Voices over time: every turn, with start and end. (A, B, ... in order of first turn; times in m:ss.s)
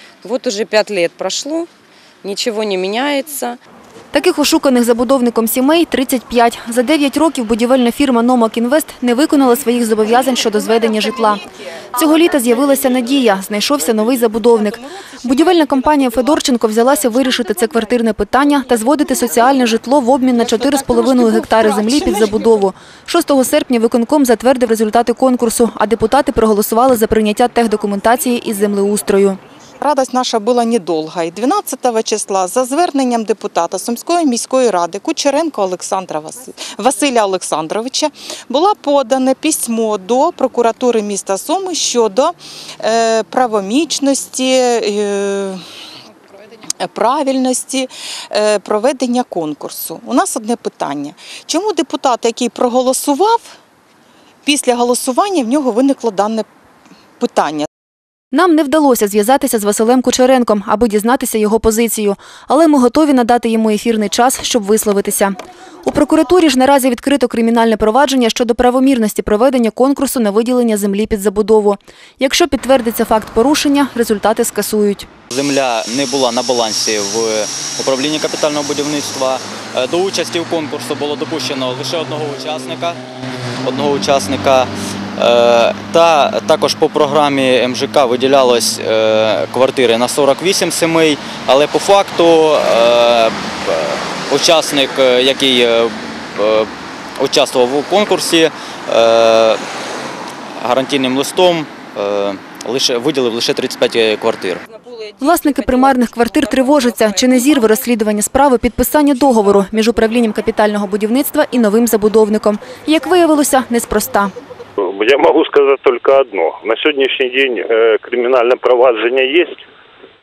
0:00.2-0:01.7 A
0:02.2-0:03.6 A
0:04.1-0:29.4 B
0:29.8-0:45.6 C
0:46.8-0:53.6 C
0:54.5-0:56.5 C
0:57.2-0:57.7 C
0:58.3-1:15.1 B
1:15.3-1:23.0 D
1:23.6-1:39.6 D
1:40.6-1:44.6 D
1:44.7-1:47.7 A
1:45.2-1:54.3 B
1:54.8-1:59.6 E